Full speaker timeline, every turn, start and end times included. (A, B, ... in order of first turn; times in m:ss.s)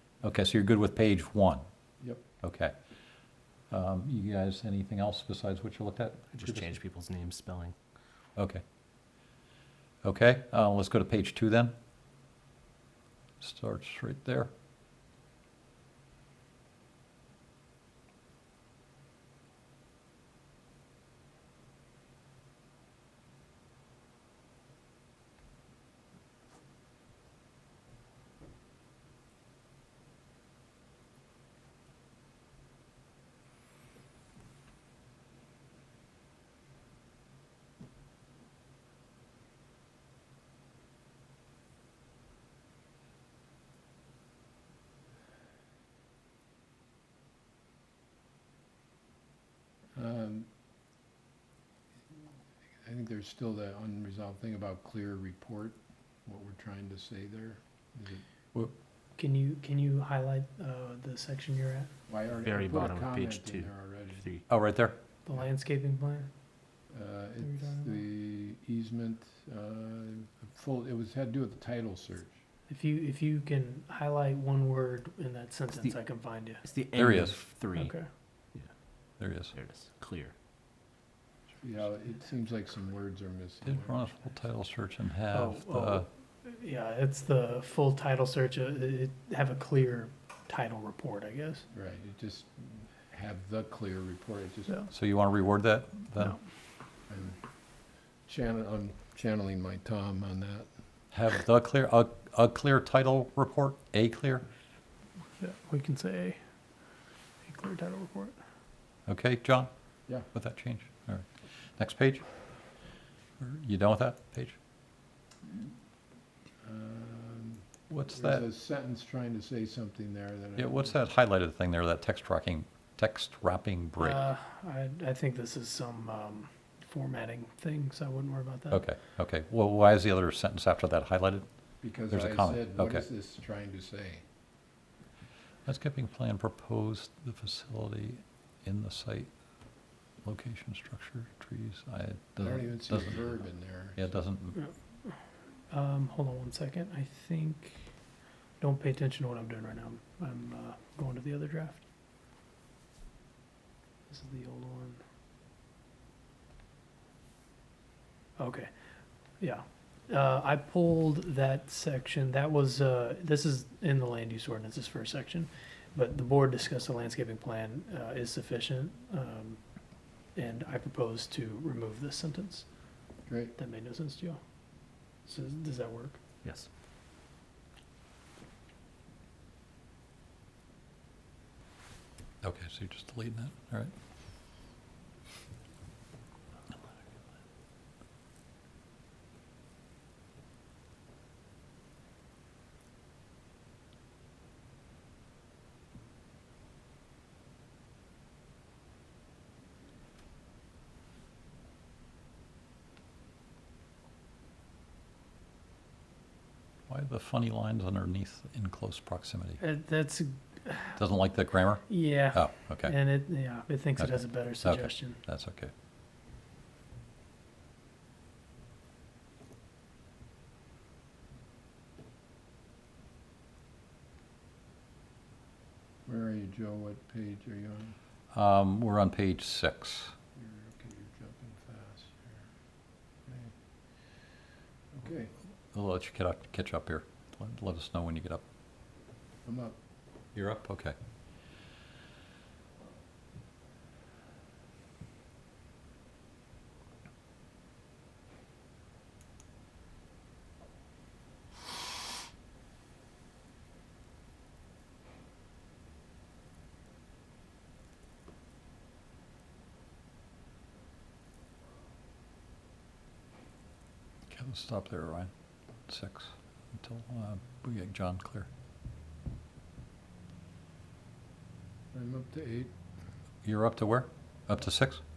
0:00.2-0:01.6 A
0:02.4-0:02.8 A
0:03.7-0:06.8 A
0:06.3-0:08.0 B
0:08.4-0:08.6 A
0:10.0-0:11.7 A
0:13.4-0:14.5 A
0:49.9-0:50.5 C
0:52.8-0:58.2 C
0:59.2-1:02.0 D
1:02.1-1:04.2 C
1:02.4-1:04.5 B
1:04.5-1:05.0 A
1:05.2-1:06.3 D
1:06.9-1:12.4 C
1:07.4-1:08.0 D
1:12.7-1:16.6 D
1:15.7-1:18.7 B
1:17.0-1:17.5 A
1:17.7-1:18.1 D
1:19.2-1:19.5 A
1:19.5-1:20.3 B
1:21.6-1:24.1 C
1:23.7-1:26.1 A
1:25.3-1:31.7 D
1:31.7-1:34.8 C
1:34.9-1:36.4 A
1:37.1-1:37.4 C
1:38.2-1:40.7 C
1:41.1-1:44.4 A
1:45.4-1:48.4 D
1:49.1-1:52.3 A
1:53.4-1:54.6 A
1:56.6-2:01.0 C
1:57.9-1:58.4 A
2:00.6-2:04.2 A
2:04.0-2:08.8 D
2:08.7-2:13.0 A
2:11.8-2:14.2 C
2:15.7-2:19.3 A
2:20.2-2:23.2 A
2:22.4-2:24.1 C
2:24.0-2:24.6 A
2:24.6-2:28.0 D
2:28.6-2:31.8 D
2:34.1-2:35.0 D
2:38.4-2:38.7 D
2:39.4-2:49.6 D
2:50.2-2:52.9 D
2:53.3-2:53.6 C
2:53.6-2:54.4 D
2:55.2-2:56.2 D
2:56.4-2:56.7 B
3:02.4-3:03.9 A
3:26.9-3:29.6 A
3:29.6-3:31.0 D
3:31.0-3:33.0 A
3:31.9-3:35.2 D
3:34.0-3:35.7 A
3:46.1-3:48.0 C
3:48.3-3:50.1 A
3:50.4-3:52.5 C
3:53.3-3:53.5 C
3:54.9-3:55.3 C
3:55.7-3:58.4 A
3:59.4-3:59.8 C
4:00.4-4:01.0 A
4:24.3-4:25.3 A
4:25.9-4:28.5 A
4:31.9-4:32.7 C
4:33.4-4:35.0 A